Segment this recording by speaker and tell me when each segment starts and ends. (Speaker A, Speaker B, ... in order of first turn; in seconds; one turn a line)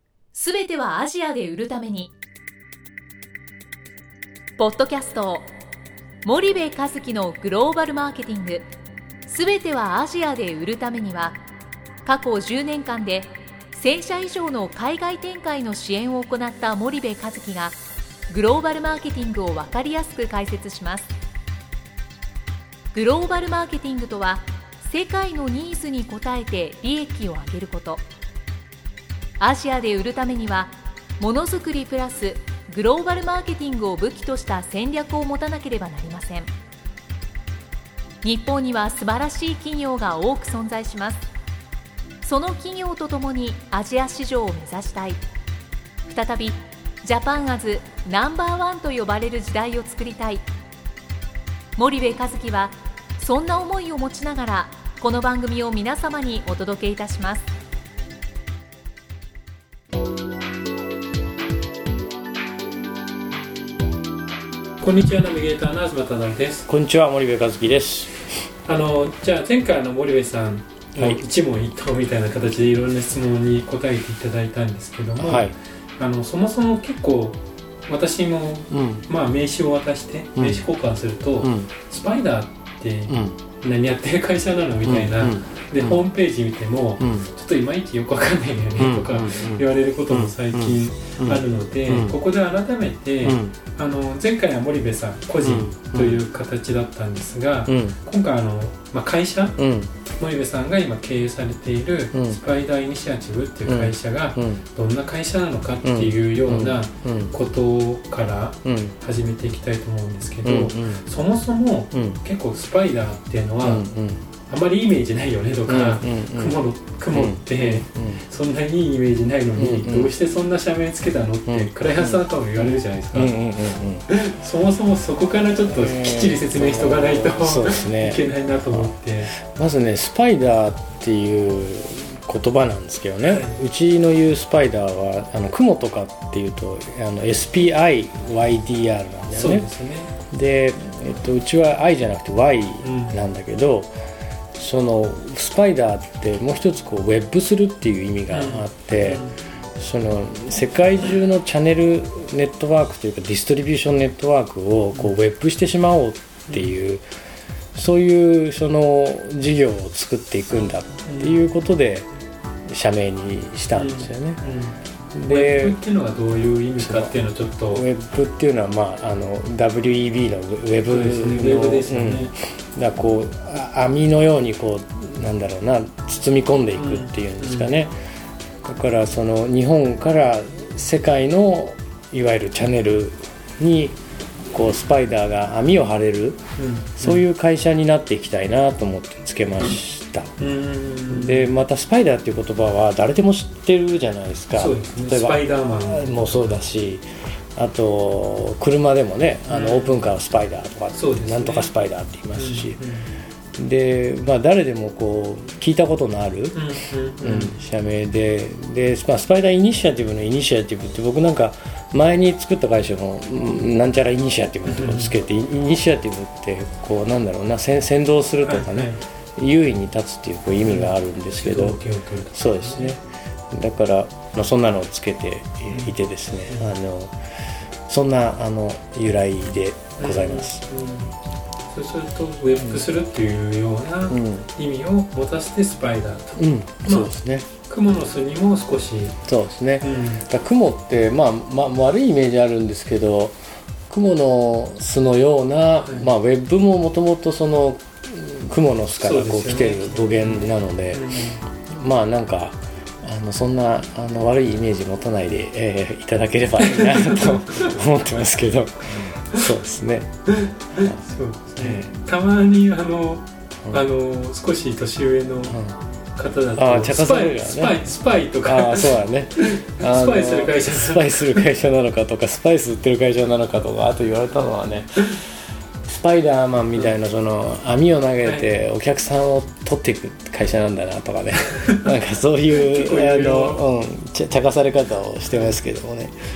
Speaker A: 0.3-2.1
Speaker A: 4.6-5.5
Speaker A: 6.2-8.7
Speaker A: 9.3-11.4
Speaker A: 12.0-17.8
Speaker A: 18.3-21.1
Speaker A: 22.9-28.0
Speaker A: 29.4-36.5
Speaker A: 38.2-41.2
Speaker A: 42.2-45.2
Speaker A: 46.1-50.4
Speaker A: 51.8-57.5
Speaker B: 64.8-66.7
Speaker C: 66.7-68.3
Speaker B: 68.7-99.6
Speaker C: 70.9-71.2
Speaker C: 75.2-75.5
Speaker C: 78.7-79.1
Speaker C: 80.3-80.6
Speaker C: 81.4-81.7
Speaker C: 83.1-83.4
Speaker C: 84.8-86.0
Speaker C: 87.0-87.3
Speaker C: 88.8-92.2
Speaker C: 93.2-93.5
Speaker C: 95.4-96.2
Speaker C: 97.7-98.0
Speaker C: 99.6-99.9
Speaker B: 100.1-113.8
Speaker C: 102.1-102.4
Speaker C: 103.7-104.6
Speaker C: 105.8-107.3
Speaker C: 108.6-109.0
Speaker C: 110.4-111.0
Speaker C: 111.9-112.2
Speaker C: 113.6-114.2
Speaker B: 114.5-123.4
Speaker C: 115.7-116.6
Speaker C: 117.1-118.2
Speaker C: 119.5-120.1
Speaker C: 121.5-124.1
Speaker B: 124.1-129.3
Speaker C: 125.7-139.7
Speaker B: 133.2-133.6
Speaker B: 139.3-140.1
Speaker C: 140.3-143.9
Speaker B: 142.8-143.2
Speaker C: 144.6-149.2
Speaker B: 148.3-149.3
Speaker C: 149.8-157.0
Speaker C: 157.7-162.1
Speaker B: 161.1-161.4
Speaker C: 162.7-164.4
Speaker B: 163.7-167.8
Speaker C: 165.1-165.8
Speaker C: 166.8-167.2
Speaker C: 167.7-177.9
Speaker B: 170.9-172.3
Speaker B: 176.8-177.8
Speaker C: 178.6-184.0
Speaker C: 184.5-186.4
Speaker B: 186.6-187.2
Speaker C: 187.0-190.3
Speaker B: 190.4-191.5
Speaker C: 191.1-197.0
Speaker B: 194.5-196.6
Speaker C: 197.6-202.8
Speaker B: 199.5-200.0
Speaker B: 200.9-201.7
Speaker B: 202.3-203.1
Speaker C: 203.6-206.7
Speaker B: 206.5-207.5
Speaker C: 207.2-221.8
Speaker B: 214.7-215.1
Speaker B: 218.4-219.0
Speaker B: 220.6-223.0
Speaker C: 222.3-227.2
Speaker C: 227.9-230.6
Speaker B: 230.0-231.1
Speaker B: 231.7-237.2
Speaker C: 232.6-232.9
Speaker C: 234.1-234.5
Speaker C: 236.4-237.5
Speaker B: 237.7-239.2
Speaker C: 239.2-243.4
Speaker B: 239.8-240.2
Speaker C: 243.9-251.1
Speaker B: 249.0-251.4
Speaker C: 251.7-260.1
Speaker B: 256.7-257.7
Speaker B: 259.0-259.4
Speaker B: 260.4-265.6
Speaker C: 260.8-261.0
Speaker C: 261.6-261.9
Speaker C: 265.5-265.8
Speaker B: 266.1-271.4
Speaker C: 266.5-267.8
Speaker C: 268.4-275.3
Speaker C: 275.8-286.1
Speaker B: 278.2-278.5
Speaker B: 282.5-283.6